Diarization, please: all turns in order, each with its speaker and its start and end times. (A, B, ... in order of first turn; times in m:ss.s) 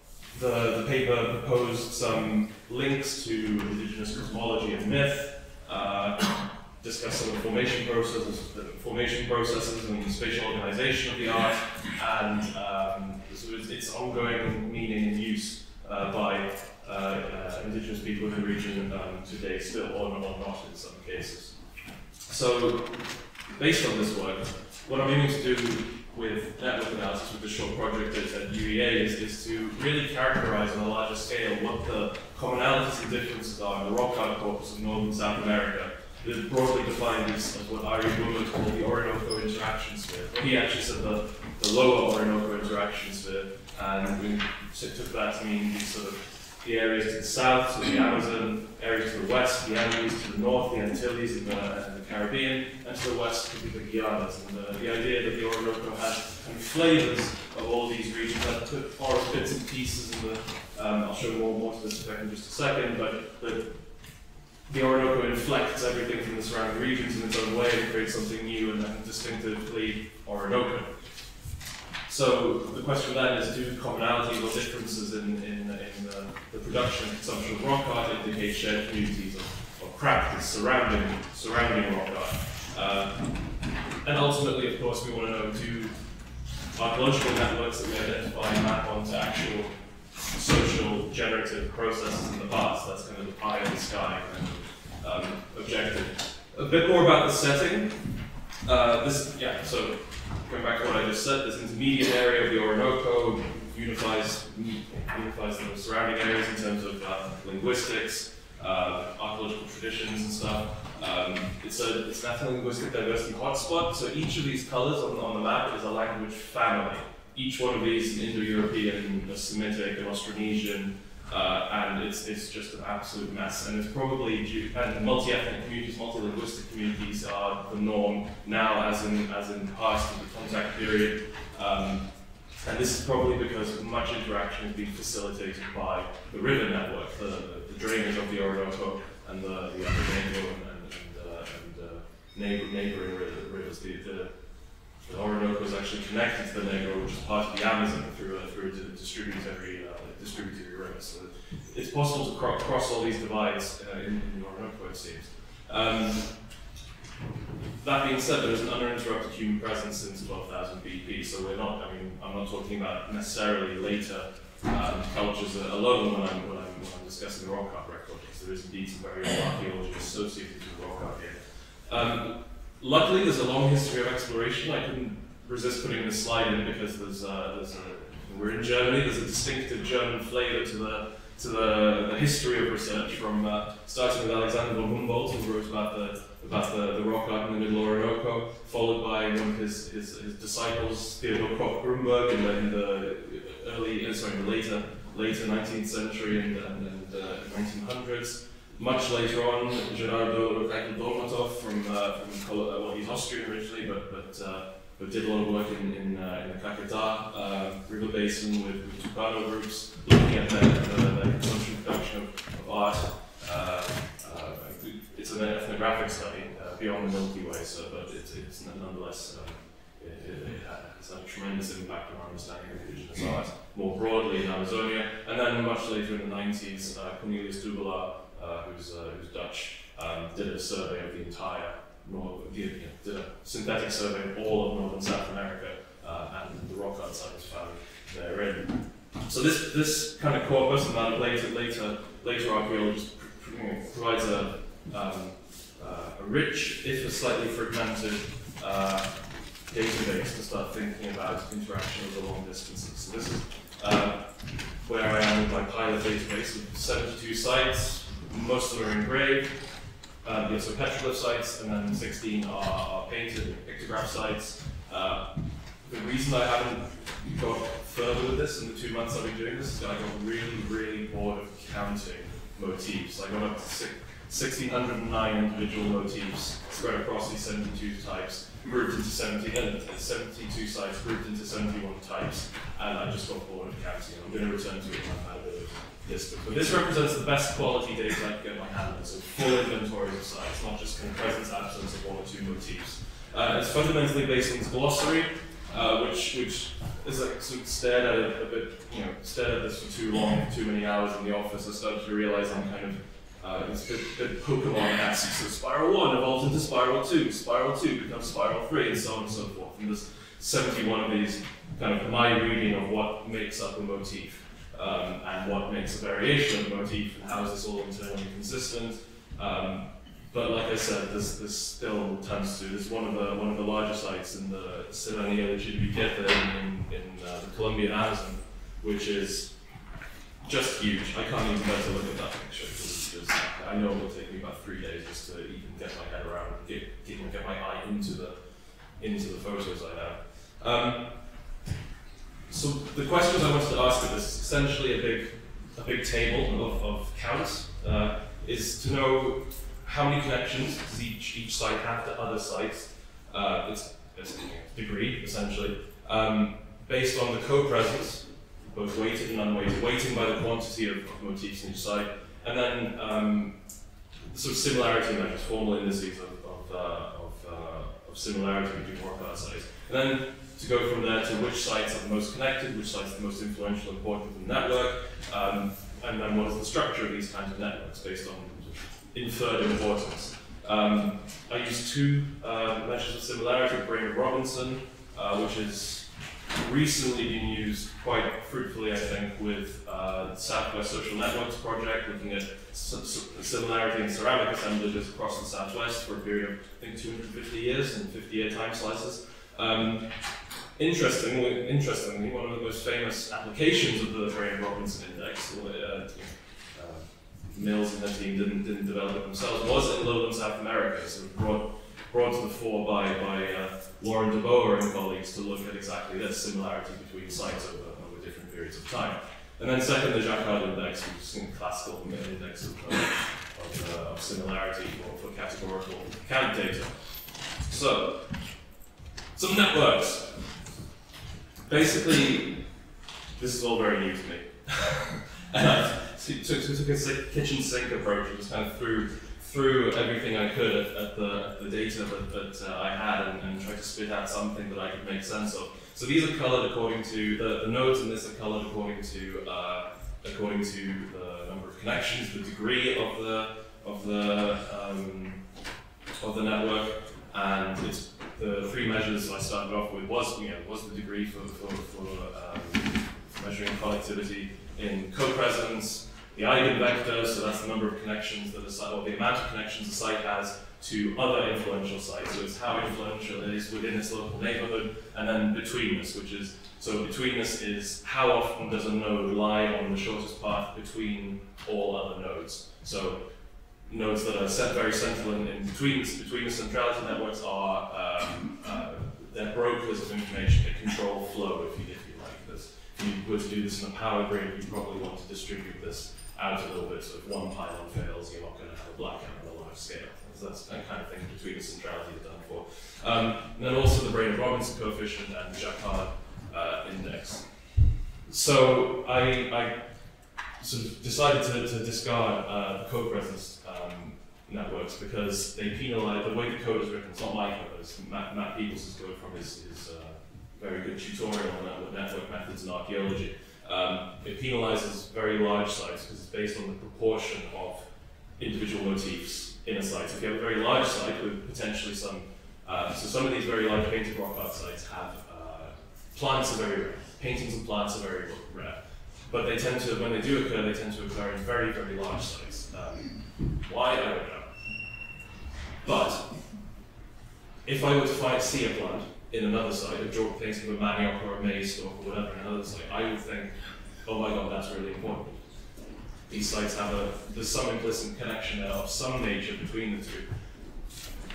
0:00.3-0:21.6 A
0:22.2-1:04.1 A
1:04.6-1:11.3 A
1:12.0-1:23.3 A
1:24.0-1:26.0 A
1:26.7-2:36.5 A
2:37.8-5:29.6 A
5:30.4-5:41.4 A
5:42.5-6:03.6 A
6:04.3-6:40.2 A
6:40.7-7:08.6 A
7:09.3-7:10.6 A
7:11.6-7:12.8 A
7:13.3-7:35.4 A
7:36.2-8:03.3 A
8:03.8-9:04.5 A
9:05.8-9:06.5 A
9:07.6-9:15.5 A
9:16.3-9:20.3 A